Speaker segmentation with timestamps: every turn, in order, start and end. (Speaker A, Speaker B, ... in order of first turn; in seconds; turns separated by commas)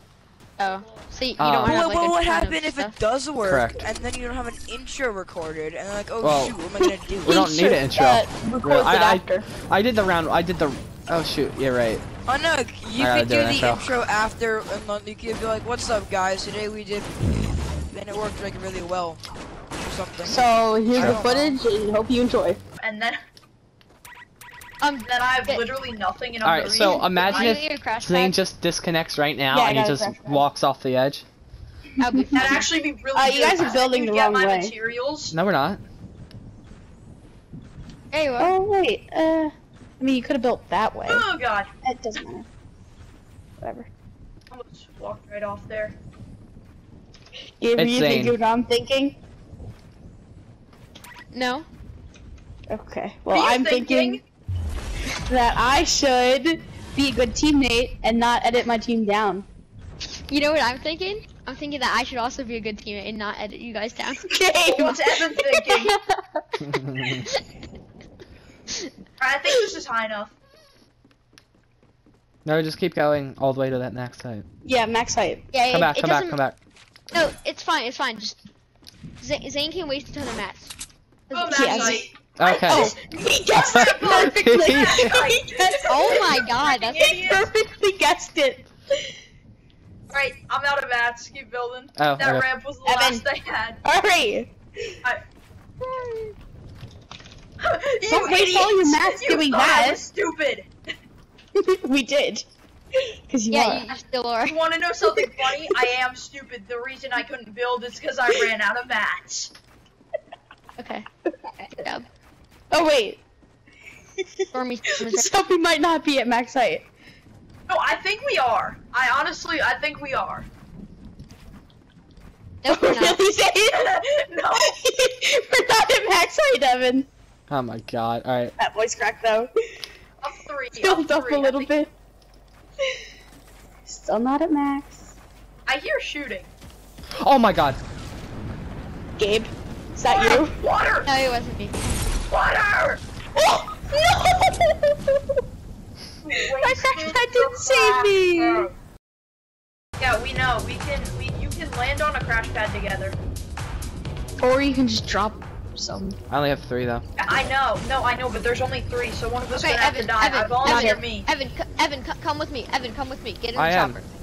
Speaker A: 0.6-2.9, Speaker B: 1.4-1.8, Speaker C: 1.6-7.4, Speaker B: 3.4-3.8, Speaker B: 6.2-6.5, Speaker D: 7.2-9.4, Speaker B: 7.2-12.0, Speaker C: 12.3-17.1, Speaker B: 13.0-13.9, Speaker C: 17.9-19.2, Speaker C: 19.8-21.6, Speaker D: 20.2-22.6, Speaker B: 20.9-21.2, Speaker E: 22.8-23.2, Speaker A: 24.8-25.6, Speaker E: 25.0-27.6, Speaker B: 26.4-31.2, Speaker A: 27.2-28.4, Speaker D: 29.5-30.4, Speaker A: 32.0-32.6, Speaker D: 32.1-34.7, Speaker E: 32.3-35.3, Speaker B: 35.3-35.8, Speaker A: 38.1-38.5, Speaker D: 38.4-41.3, Speaker E: 41.1-41.7, Speaker D: 41.8-42.5, Speaker D: 43.6-43.9, Speaker E: 44.5-46.0, Speaker D: 47.6-49.2, Speaker B: 47.8-48.4, Speaker A: 51.3-51.7, Speaker D: 52.7-54.2, Speaker E: 53.3-54.2, Speaker D: 55.3-59.5, Speaker A: 60.3-64.2, Speaker D: 64.3-66.4, Speaker E: 64.7-65.9, Speaker B: 66.6-67.2, Speaker E: 69.2-70.3, Speaker B: 72.4-74.4, Speaker D: 74.6-75.5, Speaker A: 75.5-76.4, Speaker B: 75.7-76.5, Speaker A: 77.1-78.4, Speaker A: 79.2-80.7, Speaker A: 81.3-82.0, Speaker E: 81.3-82.9, Speaker D: 81.5-82.1, Speaker B: 82.4-82.9, Speaker D: 82.6-86.4, Speaker B: 83.7-85.2, Speaker E: 83.7-87.5, Speaker A: 85.9-87.1, Speaker D: 87.0-88.7, Speaker E: 90.1-93.8, Speaker B: 92.0-92.5, Speaker D: 92.8-93.2, Speaker D: 93.8-94.5, Speaker E: 97.6-100.7, Speaker D: 98.1-100.0, Speaker D: 101.6-102.5, Speaker D: 103.3-103.9, Speaker A: 103.5-104.6, Speaker E: 104.5-109.5, Speaker D: 105.1-105.8, Speaker A: 110.8-111.0, Speaker A: 111.6-112.0, Speaker D: 112.7-113.2, Speaker A: 114.5-115.3, Speaker D: 115.0-116.9, Speaker E: 117.7-120.5, Speaker A: 122.6-123.2, Speaker D: 122.7-124.0, Speaker E: 123.7-124.7, Speaker D: 124.6-127.1, Speaker B: 127.5-128.5, Speaker D: 128.6-129.5, Speaker E: 130.2-131.7, Speaker D: 130.7-131.9, Speaker D: 133.8-135.1, Speaker E: 135.7-136.5, Speaker B: 137.2-137.8, Speaker D: 139.2-140.5, Speaker E: 140.1-141.1, Speaker A: 141.0-141.8, Speaker E: 142.3-143.0, Speaker D: 143.3-145.0, Speaker E: 146.2-148.7, Speaker D: 146.6-148.7, Speaker E: 150.0-153.2, Speaker D: 154.4-156.2, Speaker B: 156.3-157.0, Speaker E: 157.2-161.3, Speaker A: 159.5-164.1, Speaker D: 160.6-161.0, Speaker B: 163.5-164.0